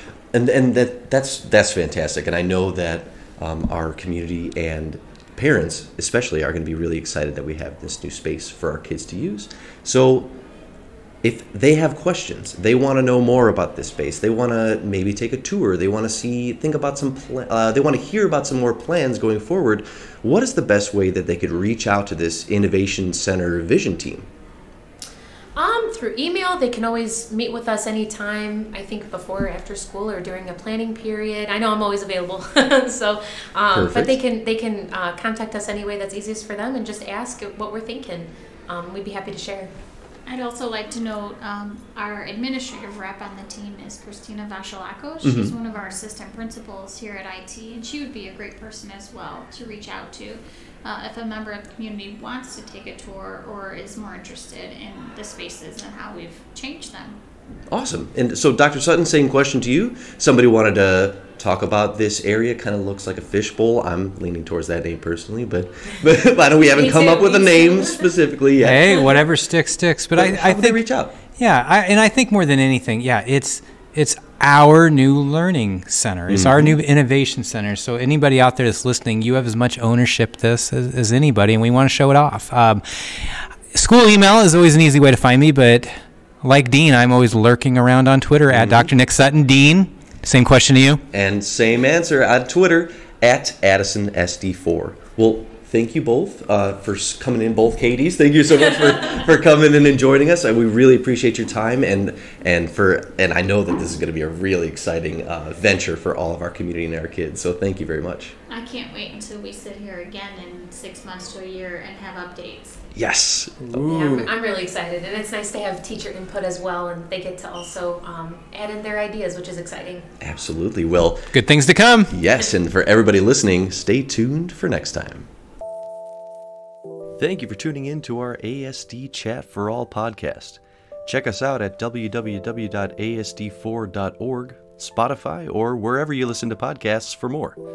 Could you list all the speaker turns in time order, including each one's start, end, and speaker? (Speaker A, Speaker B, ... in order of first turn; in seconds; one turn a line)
Speaker A: 0.3-10.3
Speaker A: 11.2-24.3
Speaker B: 25.6-39.7
Speaker A: 33.7-34.2
Speaker C: 40.3-57.2
Speaker A: 45.2-45.5
Speaker A: 57.7-69.2
Speaker B: 66.6-68.2
Speaker D: 68.6-70.8
Speaker A: 70.2-71.1
Speaker D: 71.4-85.9
Speaker A: 76.3-76.8
Speaker D: 86.4-91.0
Speaker A: 88.5-88.9
Speaker A: 91.1-108.3
Speaker C: 108.5-112.8
Speaker A: 113.0-114.3
Speaker B: 113.8-120.1
Speaker A: 120.2-121.3
Speaker D: 121.3-122.1
Speaker A: 122.1-125.3
Speaker A: 127.2-137.6